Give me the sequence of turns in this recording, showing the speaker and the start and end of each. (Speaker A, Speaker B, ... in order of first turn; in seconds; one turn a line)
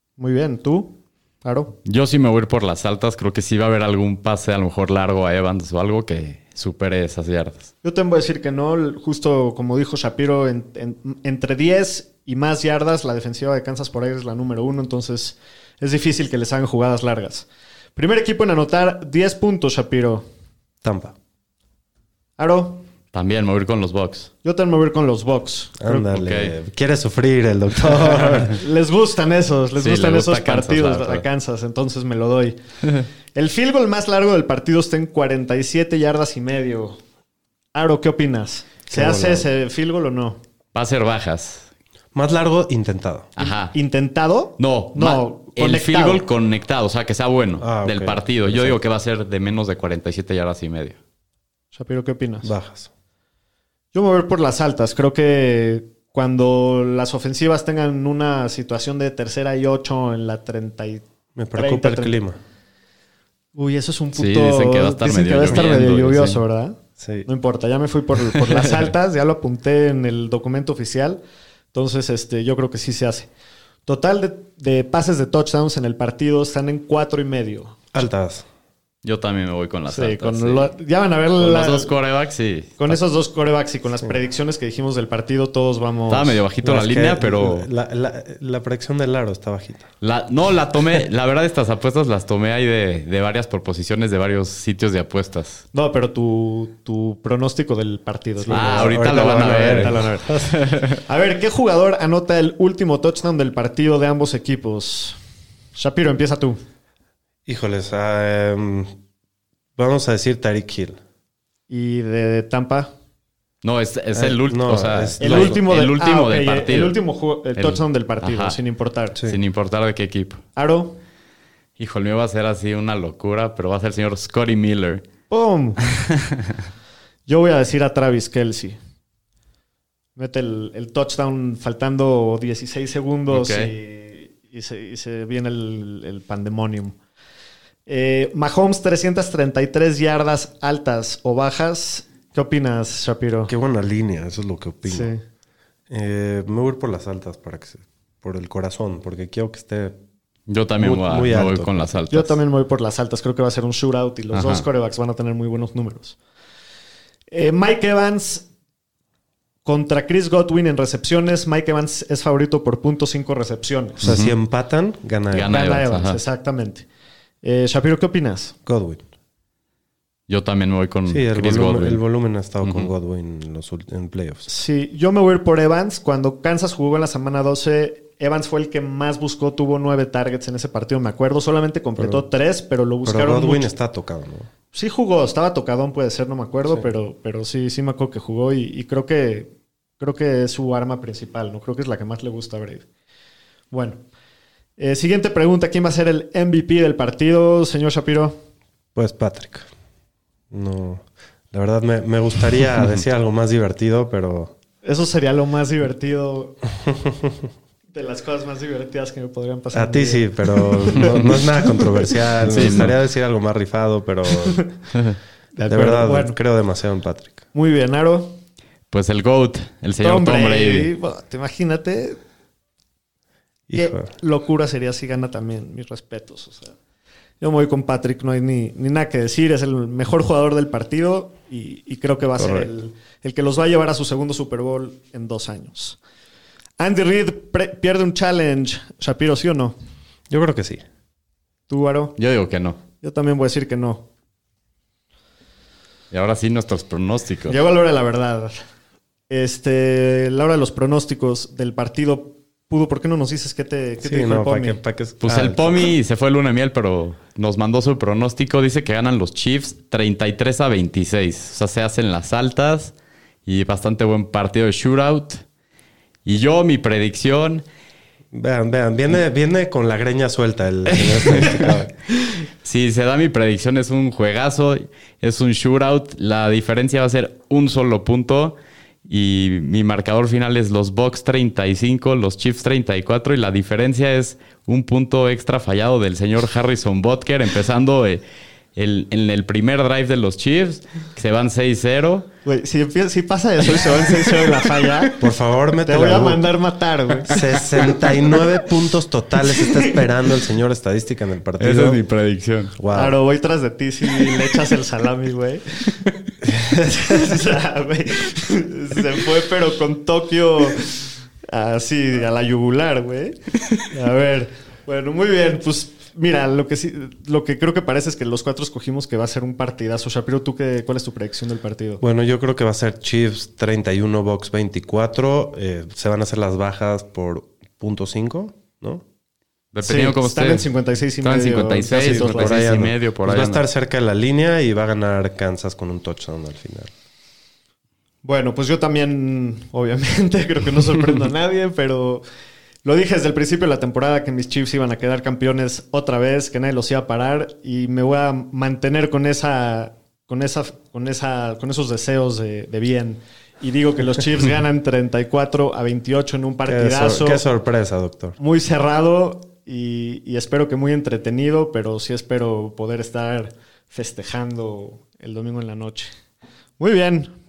Speaker A: 0.2-1.7
Speaker B: 1.8-7.7
Speaker A: 7.8-20.2
Speaker C: 20.8-21.1
Speaker A: 22.4-22.8
Speaker B: 23.1-24.3
Speaker A: 24.4-26.2
Speaker C: 25.8-28.6
Speaker B: 26.1-26.5
Speaker A: 28.5-32.6
Speaker B: 29.8-31.2
Speaker A: 33.3-37.0
Speaker A: 37.7-40.4
Speaker C: 38.9-39.5
Speaker B: 40.7-41.7
Speaker C: 42.1-43.3
Speaker B: 43.4-43.7
Speaker A: 43.4-46.2
Speaker B: 44.6-51.0
Speaker C: 47.6-48.8
Speaker A: 51.7-52.5
Speaker C: 52.4-52.9
Speaker A: 53.9-61.0
Speaker C: 61.4-62.4
Speaker A: 61.5-62.2
Speaker A: 63.5-71.2
Speaker B: 64.1-66.4
Speaker C: 67.0-67.3
Speaker A: 71.7-73.3
Speaker A: 73.8-77.8
Speaker C: 77.9-78.4
Speaker B: 79.0-80.7
Speaker A: 79.9-81.9
Speaker B: 81.4-83.0
Speaker A: 82.8-86.4
Speaker B: 86.1-87.7
Speaker C: 86.6-89.9
Speaker B: 90.0-95.6
Speaker A: 95.7-100.5
Speaker C: 98.4-100.5
Speaker B: 98.5-101.0
Speaker A: 101.0-105.2
Speaker A: 105.8-106.6
Speaker C: 107.5-108.9
Speaker C: 109.8-111.0
Speaker A: 111.7-112.9
Speaker B: 113.6-117.0
Speaker C: 114.1-115.6
Speaker A: 115.2-119.2
Speaker B: 117.5-118.6
Speaker B: 119.2-120.4
Speaker A: 120.5-121.0
Speaker B: 121.8-125.0
Speaker A: 125.3-125.8
Speaker B: 125.8-126.5
Speaker A: 127.3-128.8
Speaker A: 130.2-136.9
Speaker B: 133.3-133.7
Speaker A: 137.8-143.5
Speaker C: 143.5-145.1
Speaker A: 144.9-145.2
Speaker C: 145.9-150.0
Speaker B: 150.5-152.4
Speaker C: 150.8-152.0
Speaker A: 152.1-156.2
Speaker B: 154.3-154.6
Speaker A: 157.3-158.5
Speaker A: 159.6-164.1
Speaker C: 164.0-165.5
Speaker B: 164.0-164.3
Speaker B: 165.3-166.2
Speaker A: 165.5-166.8
Speaker A: 167.4-168.5
Speaker C: 168.7-169.0
Speaker B: 170.3-172.0
Speaker C: 171.1-174.5
Speaker B: 172.6-172.9
Speaker A: 174.5-183.7
Speaker C: 182.0-182.2
Speaker C: 183.0-184.5
Speaker A: 184.7-192.8
Speaker A: 193.7-194.0
Speaker A: 194.8-198.4
Speaker C: 198.9-199.7
Speaker C: 200.5-204.5
Speaker A: 204.8-206.6
Speaker A: 207.9-212.8
Speaker C: 209.7-214.7
Speaker B: 212.5-212.9
Speaker A: 214.4-214.7
Speaker A: 215.5-216.4
Speaker C: 215.7-217.4
Speaker A: 217.5-218.4
Speaker B: 218.9-220.9
Speaker A: 220.0-222.2
Speaker C: 223.7-224.1
Speaker A: 223.7-226.7
Speaker A: 227.4-236.0
Speaker C: 232.4-232.7
Speaker A: 236.8-239.8
Speaker C: 240.3-240.8
Speaker A: 241.7-242.2
Speaker B: 242.2-242.8
Speaker A: 243.0-244.1
Speaker B: 246.1-247.6
Speaker A: 247.5-248.6
Speaker A: 249.3-254.8
Speaker C: 254.0-255.8
Speaker B: 255.2-262.9
Speaker B: 263.4-265.4
Speaker B: 266.2-267.6
Speaker C: 268.3-271.9
Speaker B: 270.9-271.7
Speaker B: 272.6-278.6
Speaker B: 279.1-288.2
Speaker B: 288.8-292.3
Speaker A: 292.4-295.2
Speaker C: 295.2-296.4
Speaker A: 295.9-298.4
Speaker C: 297.3-302.0
Speaker A: 299.6-300.0
Speaker B: 301.6-302.7
Speaker C: 302.8-303.1
Speaker A: 302.9-305.8
Speaker A: 306.5-322.0
Speaker C: 322.0-329.0
Speaker B: 329.7-330.7
Speaker A: 329.8-332.6
Speaker B: 331.2-333.6
Speaker C: 331.9-336.9
Speaker A: 338.2-342.2
Speaker A: 342.8-357.4
Speaker C: 356.6-358.4
Speaker A: 358.4-366.1
Speaker A: 366.8-367.3